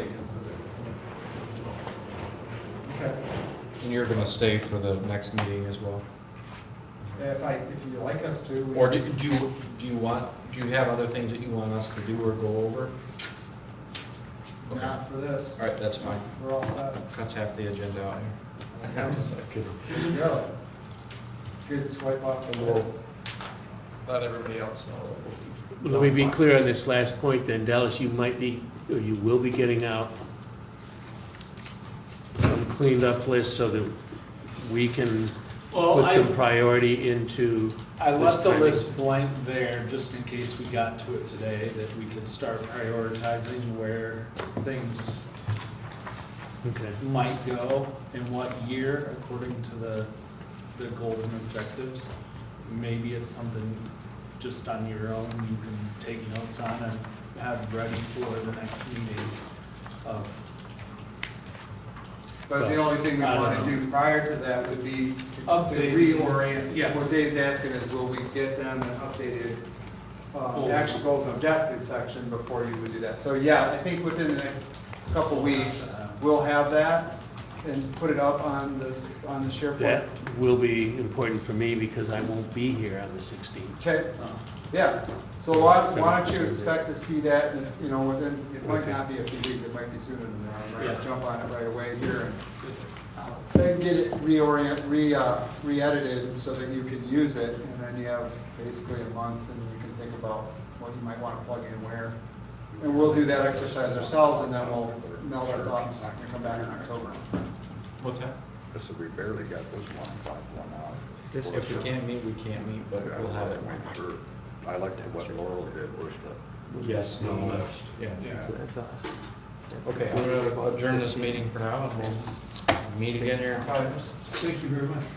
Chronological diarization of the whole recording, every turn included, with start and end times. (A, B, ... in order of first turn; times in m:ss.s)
0:02.8-0:03.2 A
0:03.8-0:06.5 B
0:07.1-0:09.0 A
0:08.7-0:13.0 B
0:14.6-0:20.1 B
0:14.6-0:17.1 A
0:19.9-0:20.5 A
0:21.6-0:23.0 A
0:22.5-0:22.9 B
0:24.0-0:26.4 B
0:25.8-0:30.1 C
0:32.4-0:34.0 C
0:34.5-0:38.9 C
0:35.7-0:36.4 D
0:38.0-0:45.2 D
0:46.6-0:47.0 C
0:47.0-0:50.1 D
0:50.7-0:59.4 D
1:00.0-1:00.4 D
1:02.5-1:20.1 A
1:03.0-1:03.8 D
1:05.4-1:07.2 D
1:10.5-1:11.2 D
1:15.2-1:16.2 D
1:19.8-1:24.0 C
1:23.8-1:32.5 A
1:24.2-1:24.4 D
1:25.5-1:26.8 C
1:30.8-1:31.1 D
1:32.6-1:33.5 D
1:33.5-1:47.5 A
1:42.8-1:47.5 E
1:48.0-1:48.4 B
1:48.7-1:56.7 E
1:51.3-1:52.0 F
1:51.5-1:54.0 B
1:56.7-2:02.4 F
1:56.8-1:58.4 B
1:57.3-1:57.6 E
1:58.2-1:58.5 D
1:59.8-2:04.2 B
2:03.2-2:04.5 F
2:04.3-2:05.0 D